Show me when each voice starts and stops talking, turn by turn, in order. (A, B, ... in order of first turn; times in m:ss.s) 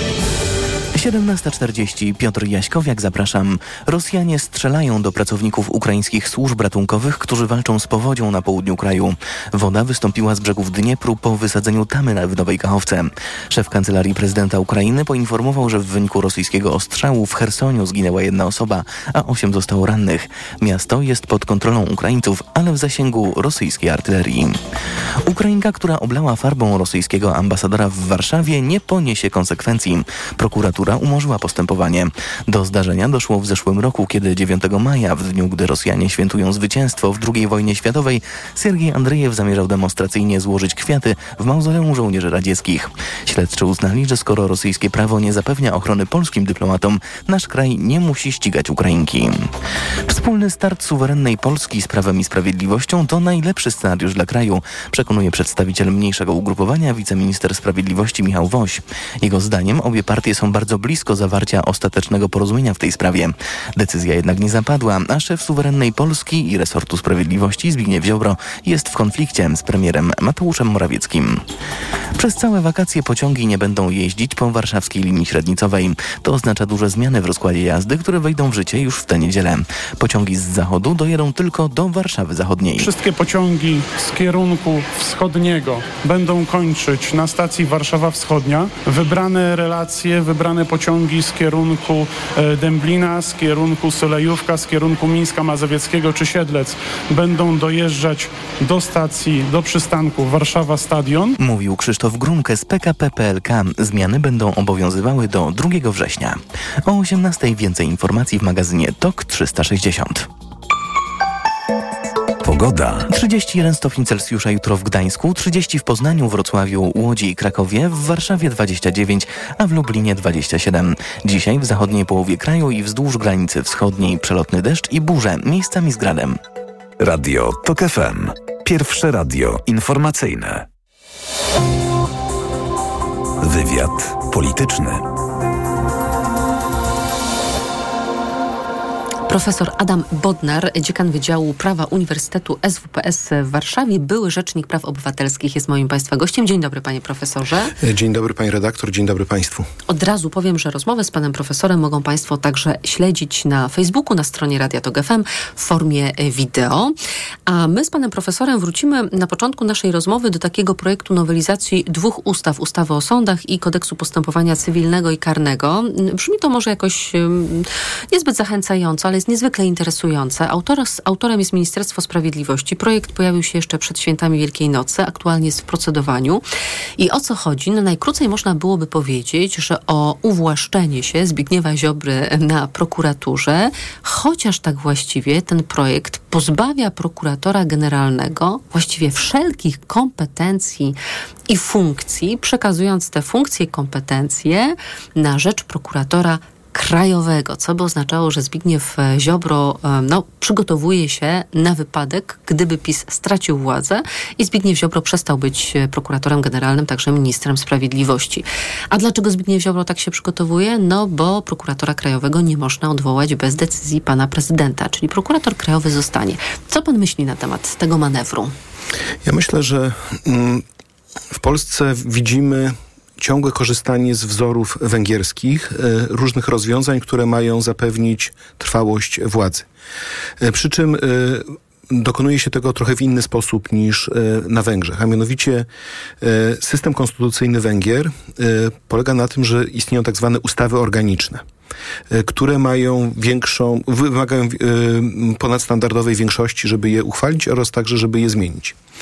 0:00.9-0:24.6 A
0:25.2-0:49.5 A
0:50.1-1:11.4 A
1:12.2-1:22.9 A
1:22.8-1:41.4 B
1:41.4-1:50.3 A
1:52.4-1:53.1 C
1:53.1-2:06.4 A
2:07.0-2:10.6 C
2:13.4-2:15.0 C
2:19.3-2:27.7 D
2:27.8-2:29.7 E
2:29.9-2:36.9 D
2:37.5-2:56.4 D
2:57.0-3:11.0 D
3:11.5-3:38.5 D
3:39.2-3:40.6 E
3:41.3-3:49.7 E
3:50.4-3:55.6 E
3:56.2-4:01.4 E
4:02.1-4:08.8 E